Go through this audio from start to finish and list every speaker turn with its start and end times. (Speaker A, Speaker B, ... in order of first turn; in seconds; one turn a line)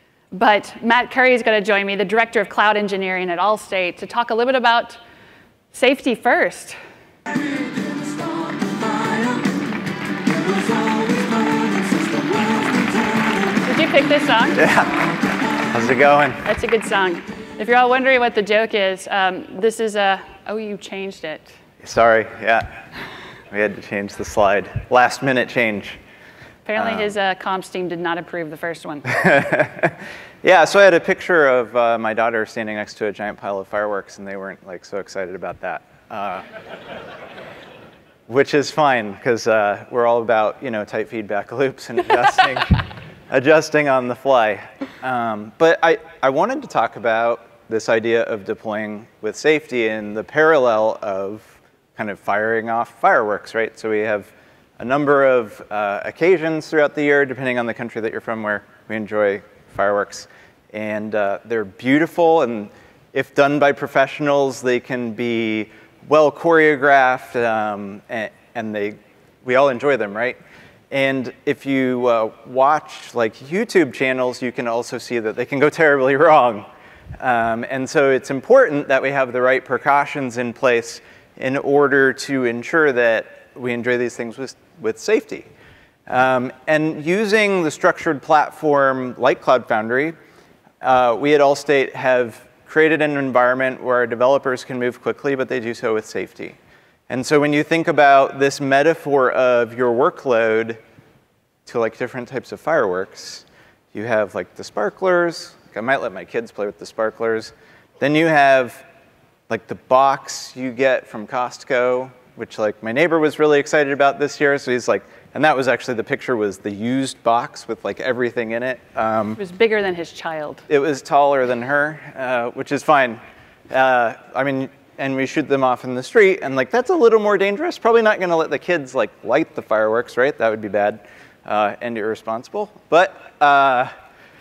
Speaker A: 0.3-5.0
Speaker A: 5.7-6.8
Speaker A: 8.1-9.3
Speaker A: 10.5-14.7
Speaker B: 14.6-15.1
Speaker B: 15.7-16.4
Speaker A: 16.4-21.5
Speaker B: 21.8-22.7
Speaker B: 23.5-26.0
Speaker A: 26.6-29.4
Speaker B: 26.8-27.1
Speaker B: 29.1-36.5
Speaker B: 38.3-70.4
Speaker B: 70.9-76.7
Speaker B: 77.2-85.5
Speaker B: 86.1-90.1
Speaker B: 90.8-96.5
Speaker B: 97.1-100.8
Speaker B: 101.7-108.8
Speaker B: 109.5-119.4
Speaker A: 119.4-120.6
Speaker B: 120.7-133.9